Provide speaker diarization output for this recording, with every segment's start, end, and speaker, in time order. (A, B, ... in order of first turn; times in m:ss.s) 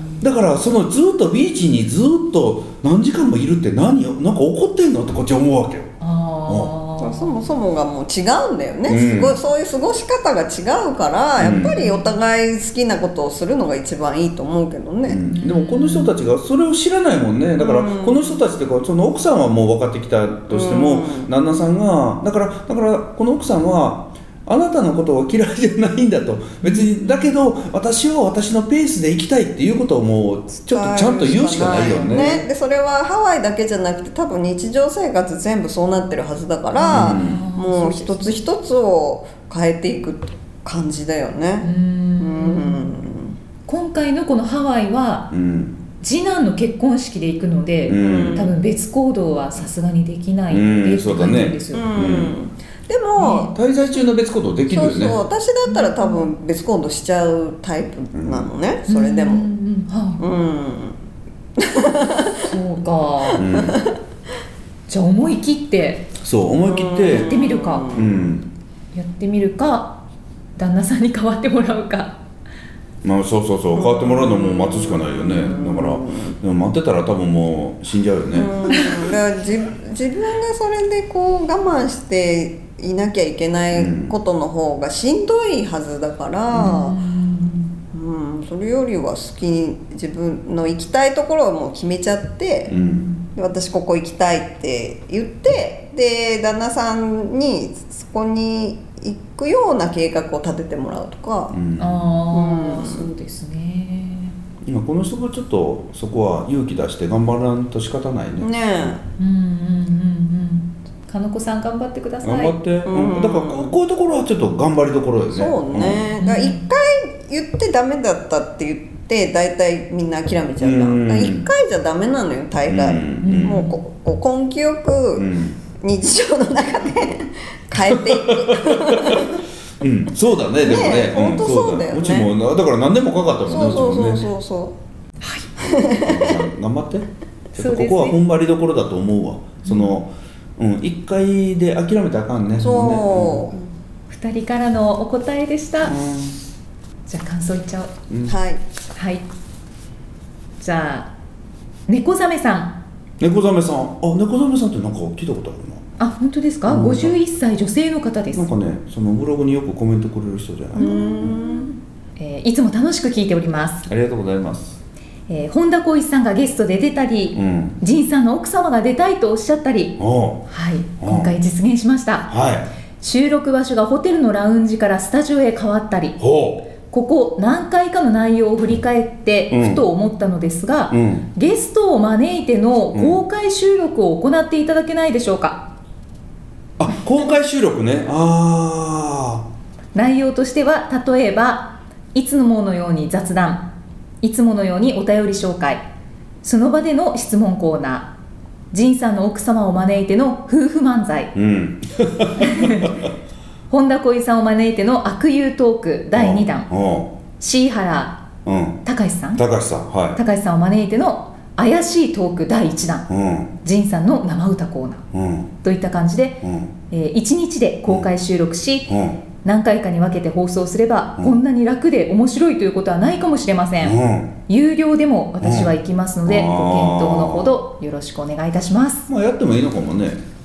0:00.2-0:05.9 A
0:06.0-0:07.4 B
0:07.0-0:15.2 C
0:08.9-0:09.4 A
0:11.4-0:11.8 A
0:11.7-0:12.2 B
0:15.0-0:32.5 A
0:15.3-0:16.2 B
0:17.6-0:18.4 C
0:20.5-0:21.3 C
0:26.6-0:27.1 B
0:30.7-0:43.4 C
0:36.7-0:38.4 B
0:36.9-0:37.4 A
0:41.6-0:42.8 B
0:43.7-0:45.3 B
0:45.3-0:45.8 A
0:46.0-0:51.9 B
0:47.9-0:48.5 A
0:47.9-0:48.5 C
0:50.5-0:52.4 A
0:51.7-0:53.5 C
0:53.2-0:53.5 B
0:53.4-0:55.2 A
0:54.7-0:59.5 C
0:55.6-0:56.2 B
0:58.1-0:58.5 A
0:58.9-1:00.2 B
1:00.2-1:01.0 C
1:01.6-1:02.5 C
1:02.4-1:03.4 B
1:03.4-1:03.8 A
1:03.4-1:03.9 C
1:04.9-1:06.1 B
1:06.2-1:08.5 A
1:06.6-1:08.3 C
1:07.0-1:08.0 B
1:08.9-1:10.0 B
1:10.6-1:12.2 B
1:13.0-1:18.5 A
1:13.7-1:16.3 C
1:18.3-1:27.0 C
1:23.7-1:24.1 A
1:26.6-1:27.8 B
1:27.9-1:32.7 C
1:32.7-1:33.1 A
1:33.3-1:41.6 C
1:41.5-1:42.0 A
1:41.8-1:44.4 B
1:42.3-1:43.1 C
1:44.6-1:48.5 A
1:48.4-1:49.0 C
1:49.2-1:52.6 B
1:52.2-1:56.0 A
1:52.8-1:53.7 C
1:55.3-2:05.3 C
1:56.2-1:56.6 B
2:00.6-2:01.5 A
2:02.7-2:03.7 A
2:03.2-2:03.7 B
2:05.2-2:05.6 A
2:05.8-2:09.4 C
2:07.8-2:14.2 A
2:10.6-2:12.3 C
2:13.5-2:14.7 C
2:15.2-2:15.5 B
2:15.6-2:16.4 C
2:16.0-2:23.5 A
2:17.6-2:18.2 B
2:19.6-2:20.0 B
2:22.6-2:23.6 C
2:24.1-2:26.0 B
2:25.8-2:26.4 A
2:27.0-2:27.9 B
2:28.2-2:28.6 C
2:28.9-2:29.2 B
2:30.6-2:31.1 B
2:31.9-2:32.8 B
2:33.2-2:35.8 A
2:36.0-2:38.5 B
2:36.6-2:37.2 A
2:38.3-2:41.4 A
2:40.8-2:41.7 C
2:40.8-2:43.9 B
2:43.9-2:44.8 A
2:45.3-2:52.3 B
2:47.3-2:47.8 A
2:50.0-2:50.4 A
2:51.0-2:51.3 A
2:52.3-2:52.7 A
2:53.0-2:56.2 B
2:56.2-2:56.7 A
2:56.8-3:05.7 B
2:59.5-2:59.8 A
3:00.9-3:01.3 A
3:02.9-3:03.2 A
3:06.8-3:09.4 A
3:09.9-3:13.7 B
3:14.2-3:15.8 B
3:16.4-3:18.1 B
3:18.7-3:21.3 B
3:21.3-3:23.1 A
3:22.4-3:23.0 B
3:23.7-3:26.7 B
3:26.1-3:27.1 A
3:27.4-3:28.2 B
3:28.4-3:28.8 A
3:28.8-3:29.4 B
3:29.3-3:30.2 A
3:30.1-3:33.1 B
3:33.1-3:33.5 A
3:33.6-3:35.0 B
3:35.1-3:35.5 A
3:35.6-3:38.9 B
3:36.4-3:36.7 A
3:38.9-3:39.2 A
3:39.4-3:49.1 B
3:43.8-3:44.4 A
3:45.4-3:47.5 A
3:49.1-3:50.2 A